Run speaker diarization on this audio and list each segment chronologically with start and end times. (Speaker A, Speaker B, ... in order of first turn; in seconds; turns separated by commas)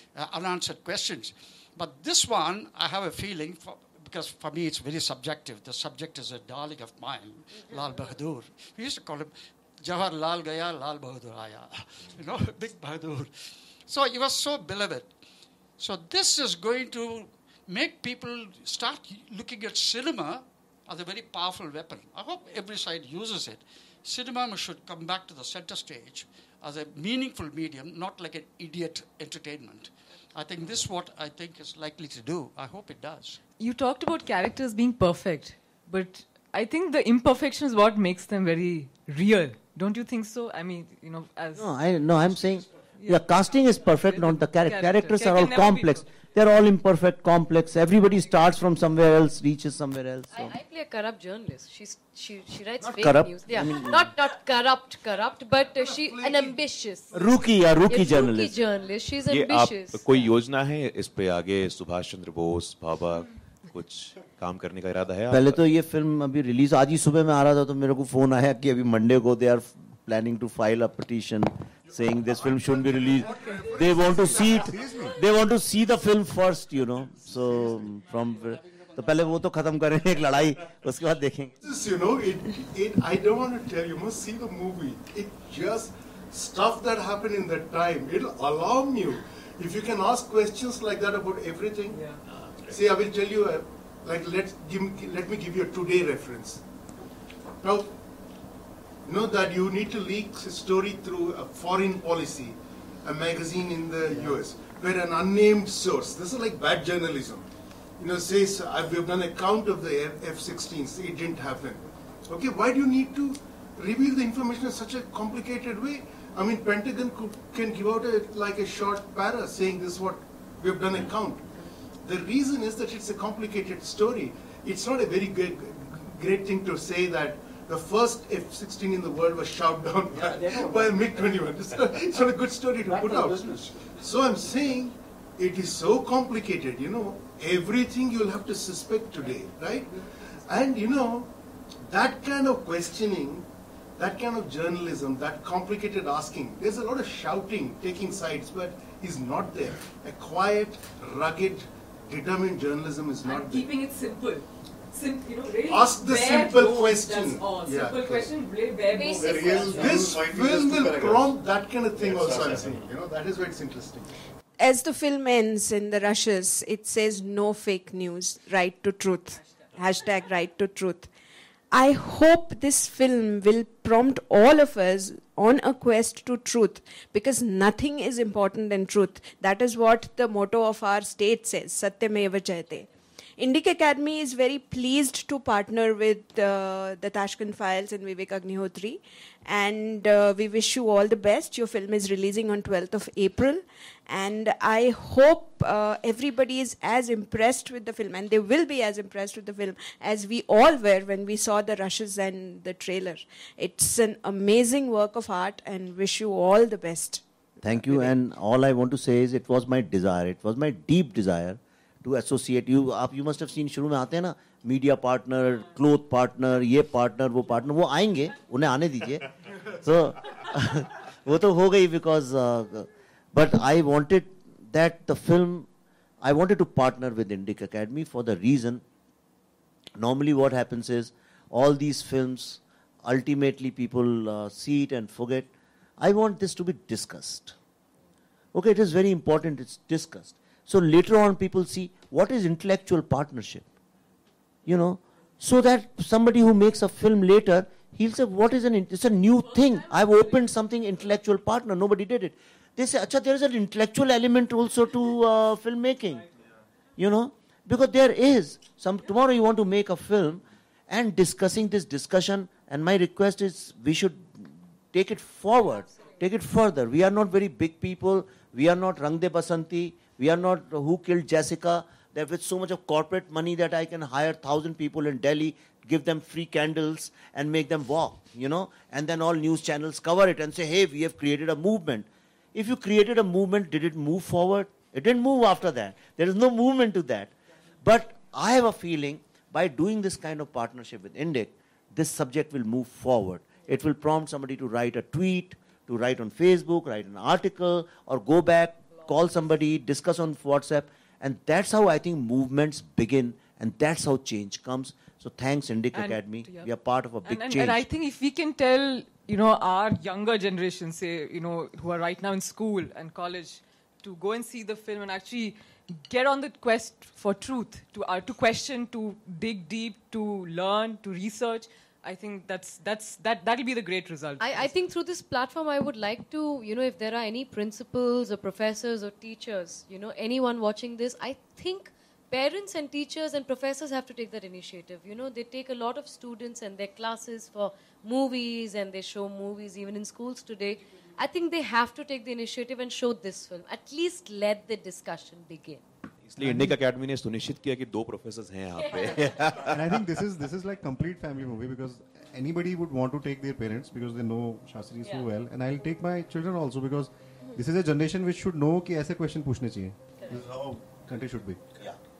Speaker A: 0.1-13.3, Speaker A: 13.8-15.1, Speaker A: 15.8-33.4, Speaker B: 33.6-41.7, Speaker C: 41.5-50.5, Speaker B: 43.0-43.3, Speaker B: 43.9-46.1, Speaker D: 50.3-57.2, Speaker C: 52.8-54.1, Speaker E: 55.8-56.6, Speaker C: 57.1-58.5, Speaker D: 57.9-60.1, Speaker F: 59.3-65.6, Speaker C: 65.3-81.5, Speaker E: 72.4-75.1, Speaker G: 74.5-75.2, Speaker E: 81.6-92.1, Speaker B: 91.9-92.2, Speaker E: 92.6-96.6, Speaker E: 97.6-98.0, Speaker E: 99.0-107.5, Speaker G: 104.1-104.4, Speaker E: 108.0-141.3, Speaker A: 130.1-131.5, Speaker A: 132.8-133.9, Speaker E: 141.8-153.7, Speaker B: 153.2-160.1, Speaker E: 155.7-158.3, Speaker D: 158.9-159.9, Speaker G: 159.2-162.9, Speaker E: 159.7-164.1, Speaker H: 164.6-171.1, Speaker H: 171.7-208.1, Speaker C: 207.6-225.7, Speaker C: 226.2-228.8, Speaker C: 229.9-237.6, Speaker C: 238.5-243.7, Speaker C: 244.6-256.3, Speaker B: 249.7-250.1, Speaker C: 257.0-307.8, Speaker B: 305.9-306.7, Speaker B: 307.2-324.8, Speaker D: 324.4-345.8, Speaker F: 346.2-350.2, Speaker G: 346.4-346.8, Speaker D: 348.8-349.4, Speaker G: 349.5-361.6, Speaker D: 355.0-355.2